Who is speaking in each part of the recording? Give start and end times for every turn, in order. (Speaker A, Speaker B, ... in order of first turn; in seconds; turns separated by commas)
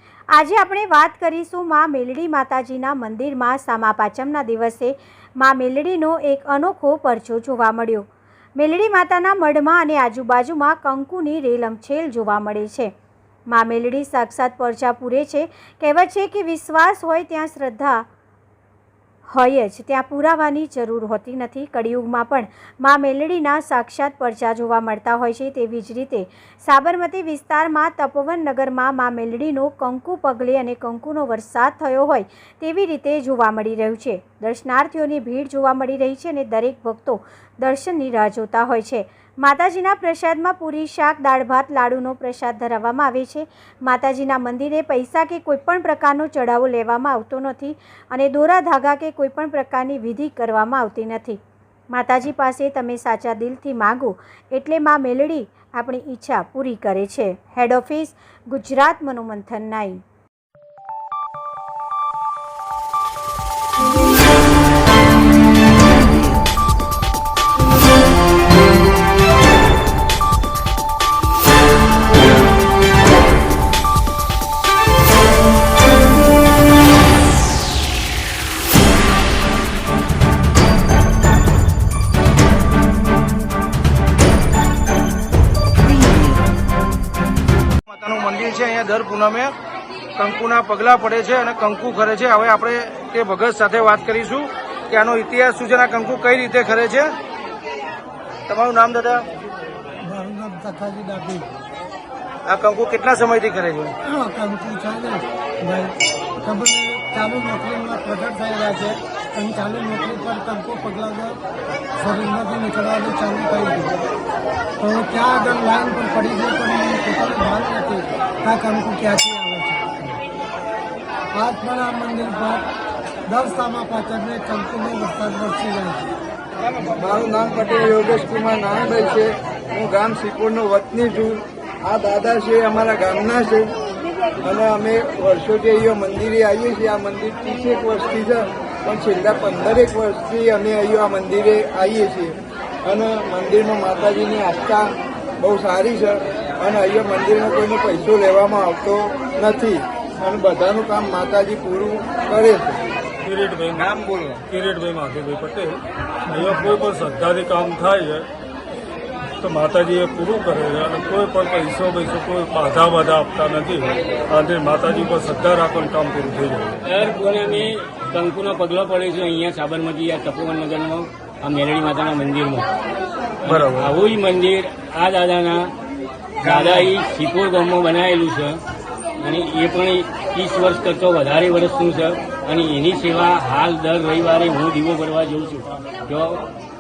Speaker A: 0.3-8.1, Speaker A: 8.6-12.9, Speaker A: 13.5-18.0, Speaker A: 19.3-51.4, Speaker A: 51.9-60.0, Speaker B: 87.9-89.5, Speaker B: 90.2-97.1, Speaker B: 98.5-99.2, Speaker C: 100.1-101.4, Speaker B: 102.5-103.9, Speaker C: 104.1-105.2, Speaker C: 106.5-111.2, Speaker C: 112.1-113.8, Speaker C: 114.9-119.8, Speaker C: 121.3-122.6, Speaker C: 123.3-126.0, Speaker D: 127.0-133.7, Speaker D: 134.4-152.8, Speaker E: 153.2-153.9, Speaker E: 154.4-158.3, Speaker E: 159.4-166.8, Speaker F: 166.9-172.7, Speaker F: 173.4-175.7, Speaker E: 173.4-173.9, Speaker F: 176.4-178.6, Speaker F: 179.2-186.4